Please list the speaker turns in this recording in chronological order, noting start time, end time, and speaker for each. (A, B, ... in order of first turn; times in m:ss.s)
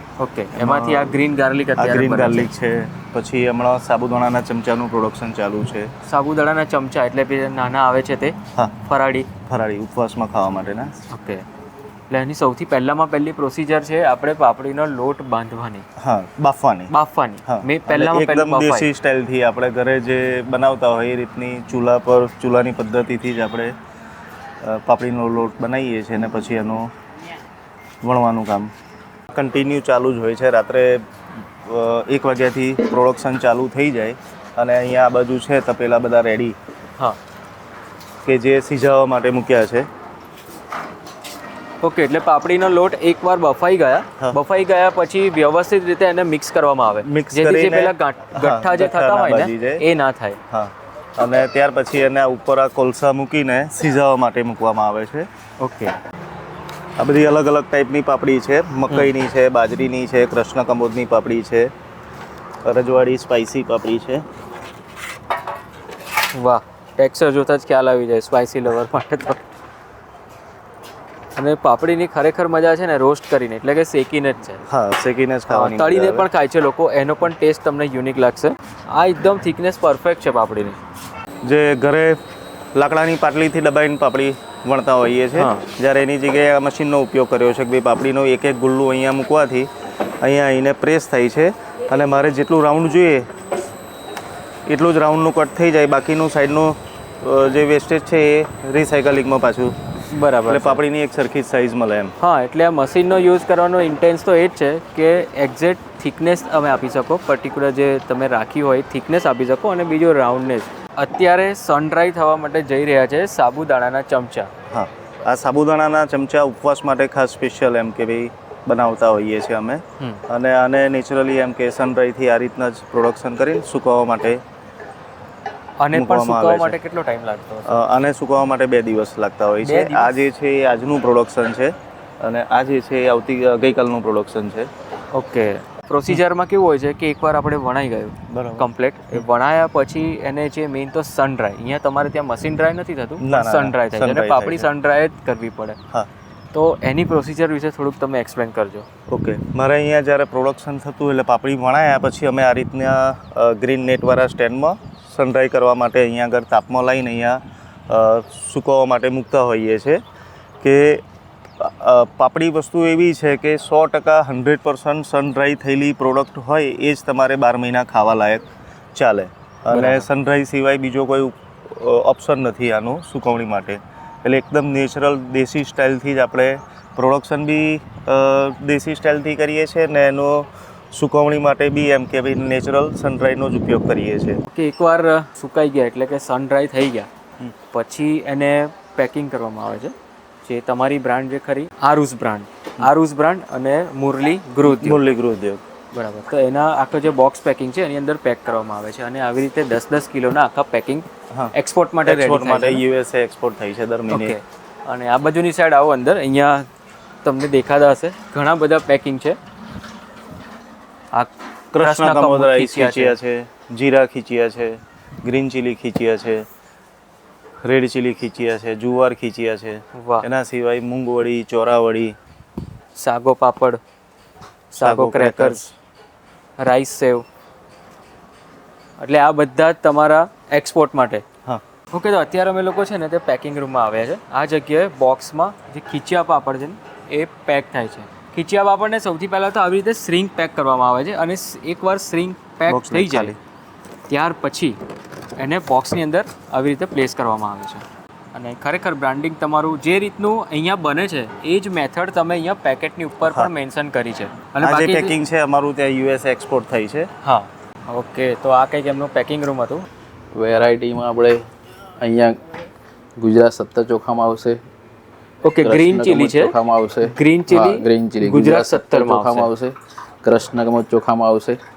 0:00.2-0:02.5 A
0:00.5-0:01.2 B
0:01.8-0:05.9 B
0:06.0-0:09.3 A
0:09.5-0:11.0 B
0:11.1-0:11.4 A
0:12.1-0:15.8 A
0:16.0-0:16.9 B
0:16.9-0:18.9 A
0:17.5-0:23.7 B
0:24.6-0:26.9 B
0:28.0-0:28.7 B
0:29.3-0:31.0 B
0:31.6-0:36.5 B
0:38.2-0:39.9 B
0:41.8-0:50.4 A
0:47.0-0:49.8 B
0:50.5-0:55.3 B
0:55.6-0:56.0 A
0:57.0-1:01.7 B
1:02.6-1:04.2 B
1:06.3-1:09.5 A
1:11.3-1:14.6 A
1:14.7-1:16.2 B
1:15.5-1:20.8 A
1:21.4-1:22.2 B
1:22.7-1:29.7 B
1:25.4-1:25.7 A
1:30.2-1:33.3 B
1:34.7-1:39.8 B
1:40.1-1:40.8 A
1:40.5-1:42.1 B
1:42.2-1:54.5 A
1:54.7-2:04.4 B
2:05.8-2:07.8 A
2:05.9-2:06.8 B
2:07.7-2:14.7 B
2:09.6-2:10.1 A
2:15.1-2:25.8 A
2:18.3-2:19.2 B
2:23.2-2:24.7 B
2:26.5-2:28.9 A
2:29.1-2:40.0 B
2:40.6-2:41.0 B
2:41.6-2:48.4 B
2:49.0-3:04.4 B
2:49.7-2:50.1 A
3:04.5-3:07.1 A
3:07.7-3:09.9 A
3:10.4-3:15.0 A
3:14.6-3:15.6 B
3:15.9-3:22.8 A
3:22.0-3:24.4 B
3:24.1-3:26.6 A
3:27.2-3:29.4 A
3:31.1-3:33.2 A
3:31.7-3:36.4 B
3:37.6-3:42.2 B
3:39.9-3:40.3 A
3:43.0-3:43.8 A
3:44.7-3:45.7 A
3:44.8-3:45.7 B
3:46.6-3:47.2 A
3:49.0-3:51.2 A
3:51.9-4:03.3 A
4:02.7-4:03.4 B
4:04.1-4:04.8 A
4:05.4-4:15.2 A
4:14.6-4:17.1 B
4:17.2-4:19.8 A
4:20.4-4:21.4 C
4:22.0-4:22.4 C
4:23.2-4:24.6 C
4:25.4-4:29.5 A
4:25.6-4:31.6 C